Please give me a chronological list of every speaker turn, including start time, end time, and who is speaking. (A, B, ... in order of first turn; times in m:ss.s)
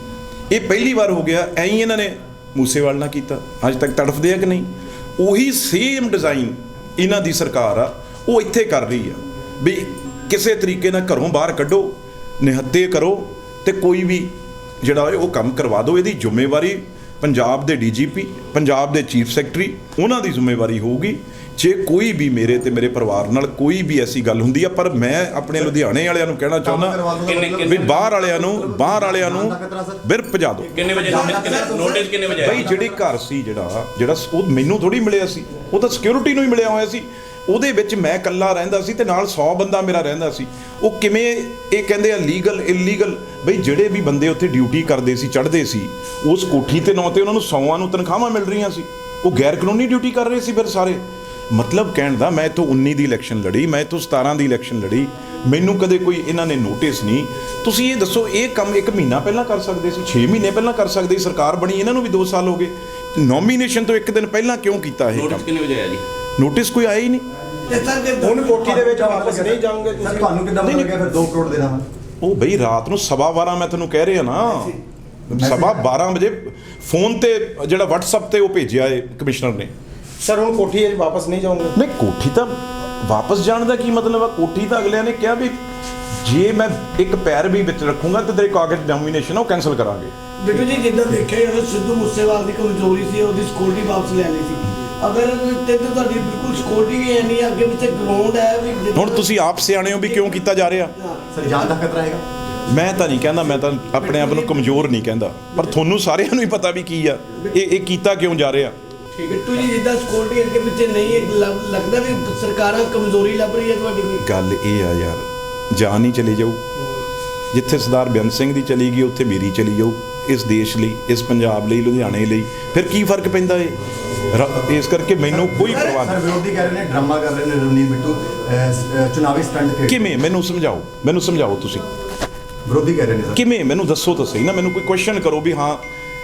0:00.5-0:27.0 A
0:26.6-0:30.0 B
0:27.3-0:27.9 C
0:27.6-0:30.8 A
0:30.6-0:33.0 B
0:30.7-0:32.6 C
0:31.0-0:32.1 D
0:32.4-1:05.5 A
1:05.1-1:06.0 C
1:06.4-1:07.3 A
1:07.7-1:08.6 D
1:08.2-1:10.3 E
1:08.4-1:11.8 B
1:10.6-1:10.9 A
1:12.2-1:14.8 A
1:15.3-1:19.7 A
1:15.4-1:15.9 B
1:20.2-1:21.7 E
1:21.8-1:25.6 A
1:26.2-1:30.1 A
1:30.4-1:39.3 D
1:38.9-1:40.9 A
1:39.9-1:40.4 D
1:41.0-1:41.7 D
1:41.3-1:42.2 B
1:42.7-1:48.8 A
1:49.2-1:54.2 D
1:54.2-1:56.6 A
1:57.5-2:03.8 A
2:04.3-2:06.2 A
2:05.3-2:10.0 B
2:09.9-2:11.9 A
2:12.7-2:13.4 B
2:13.3-2:15.8 A